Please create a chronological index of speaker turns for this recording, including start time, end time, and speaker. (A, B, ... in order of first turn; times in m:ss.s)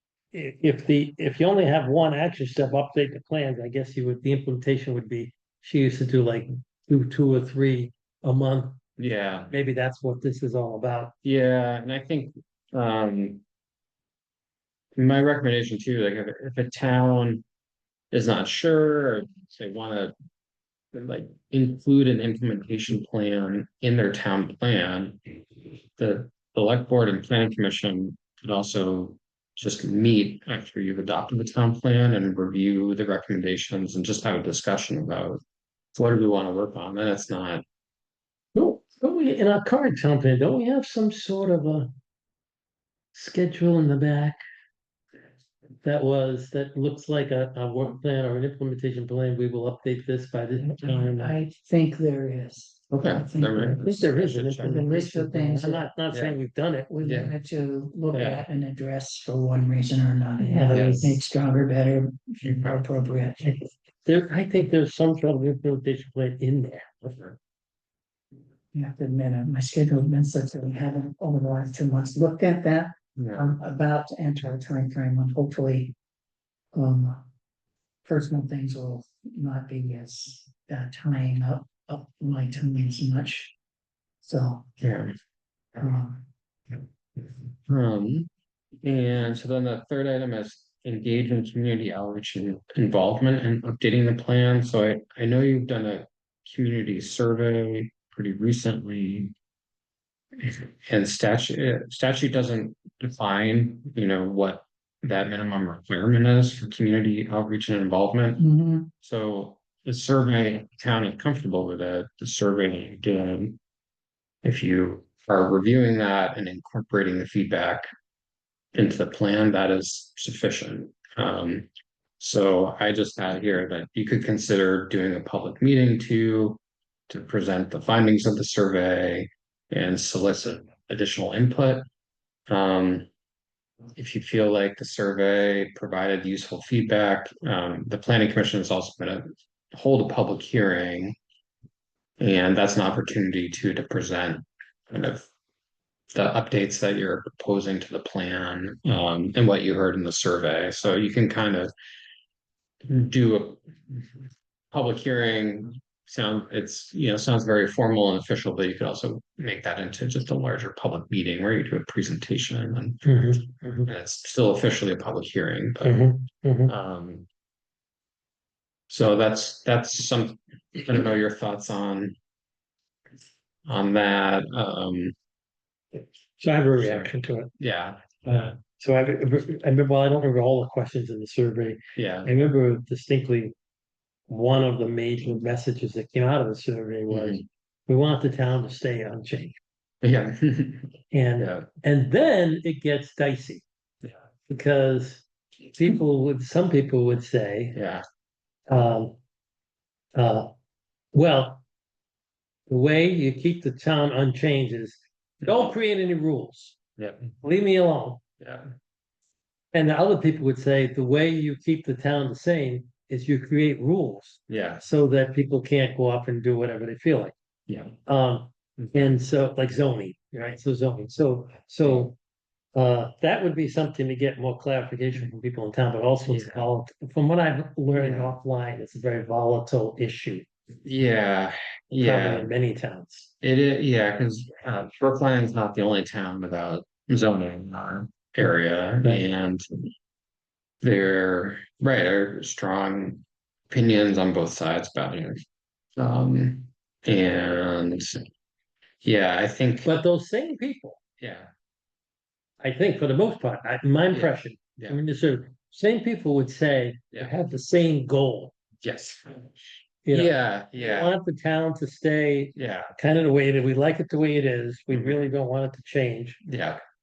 0:00.3-0:08.8 A
0:09.0-0:09.5 B
0:09.5-0:11.1 A
0:11.2-0:13.4 B
0:15.0-0:17.4 B
0:18.1-0:20.1 B
0:20.9-0:25.4 B
0:26.0-0:35.4 B
0:35.9-0:37.6 B
0:38.5-0:41.9 A
0:43.1-0:44.4 A
0:45.8-0:51.4 A
0:50.8-0:54.0 C
0:52.9-0:54.8 B
0:53.8-0:56.9 A
0:54.6-0:55.9 C
0:56.1-0:56.4 B
0:56.9-1:03.5 C
0:57.0-0:57.3 B
0:58.1-0:58.4 B
1:00.4-1:01.2 A
1:00.7-1:01.1 B
1:02.4-1:02.8 B
1:03.4-1:07.1 A
1:08.7-1:15.9 C
1:13.2-1:13.5 B
1:16.7-1:17.2 C
1:18.0-1:23.5 C
1:24.2-1:24.7 C
1:24.8-1:25.1 B
1:25.8-1:26.2 C
1:26.7-1:39.3 B
1:40.4-1:48.4 B
1:48.4-1:48.9 C
1:49.0-1:53.6 B
1:54.4-1:57.9 B
1:58.7-2:11.9 B
2:12.5-2:13.1 B
2:13.9-2:21.2 B
2:22.2-2:25.3 B
2:26.1-2:31.7 B
2:32.8-2:43.2 B
2:43.0-2:43.9 A
2:43.8-2:46.1 B
2:45.8-2:46.7 A
2:46.7-2:47.3 B
2:48.9-2:52.2 B
2:53.6-2:55.1 B
2:56.4-2:57.5 A
2:56.8-2:58.1 B
2:58.2-3:03.5 A
3:01.9-3:02.3 B
3:04.3-3:09.6 A
3:07.1-3:07.4 B
3:10.0-3:11.7 B
3:11.1-3:13.6 A
3:14.5-3:17.8 A
3:17.7-3:18.0 B
3:18.7-3:19.2 A
3:20.1-3:20.5 A
3:21.1-3:21.6 A
3:22.7-3:26.8 A
3:25.4-3:25.7 B
3:27.0-3:27.3 B
3:27.4-3:28.2 A
3:28.4-3:28.7 B
3:29.7-3:37.3 A
3:34.5-3:34.8 B
3:37.7-3:38.0 B
3:38.0-3:42.1 A
3:38.8-3:39.2 B
3:42.7-3:50.4 A
3:46.3-3:46.6 B
3:48.0-3:48.3 B
3:50.8-3:52.5 B
3:52.0-3:53.3 A
3:53.4-3:59.9 B
4:00.8-4:05.4 B
4:06.0-4:08.3 B
4:09.0-4:09.9 B
4:09.8-4:11.0 A
4:11.2-4:11.5 B
4:12.6-4:18.5 A
4:14.1-4:15.0 B
4:18.8-4:21.1 B
4:20.0-4:26.4 A
4:22.5-4:22.9 B
4:24.9-4:25.2 B
4:26.4-4:26.8 B